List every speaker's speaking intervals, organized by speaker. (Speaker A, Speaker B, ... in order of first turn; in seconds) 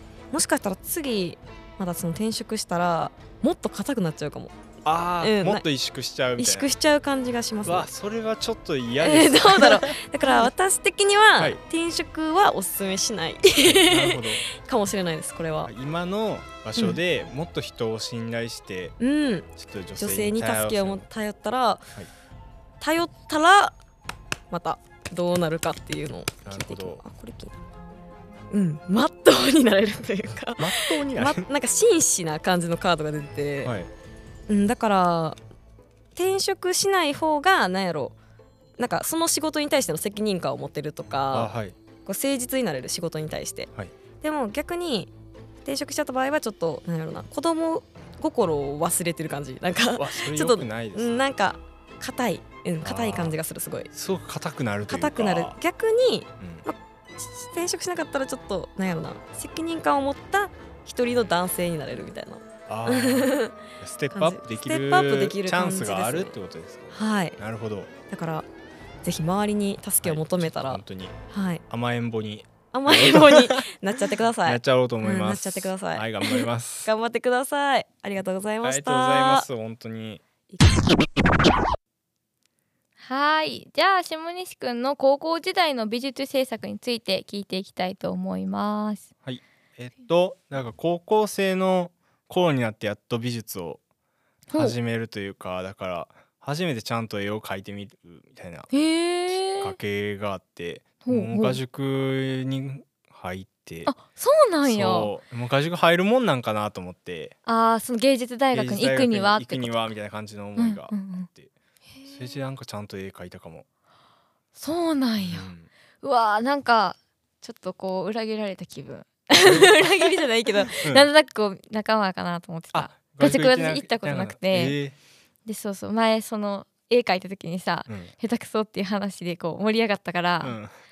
Speaker A: 0.3-4.5, 5.2-5.6, 6.4-7.9, 9.0-15.7, 19.0-21.9, 22.8-23.8, 24.5-27.5, 28.5-33.7, 34.5-35.4, 36.1-38.1, 38.8-41.5, 42.0-43.7, 44.2-45.1, 45.6-53.9, 54.9-63.5, 64.1-66.3, 66.9-67.4, 68.1-68.5, 69.0-71.6, 72.7-79.5
Speaker B: 4.8-6.7, 7.6-10.4, 13.6-14.4, 15.6-18.9, 19.6-21.0, 26.4-27.0, 30.6-31.4, 33.6-33.9, 41.3-41.7, 49.9-51.2, 52.8-53.4, 53.9-55.5, 56.4-56.6, 62.7-67.9, 70.0-71.2, 71.7-73.7, 74.4-76.9, 78.6-80.2, 89.2-93.8, 94.5-98.7, 99.4-103.9, 104.6-107.3, 108.5-111.5, 112.0-113.6, 115.2-115.7, 119.4-119.7, 120.8-121.1, 122.7-124.9, 127.9-128.1, 130.4-130.8
Speaker C: 83.0-89.1, 94.5-94.8, 98.7-99.8, 101.0-101.6, 103.8-105.1, 107.5-109.9, 110.6-111.3, 111.9-112.3, 114.5-115.5, 116.0-124.8, 125.5-130.6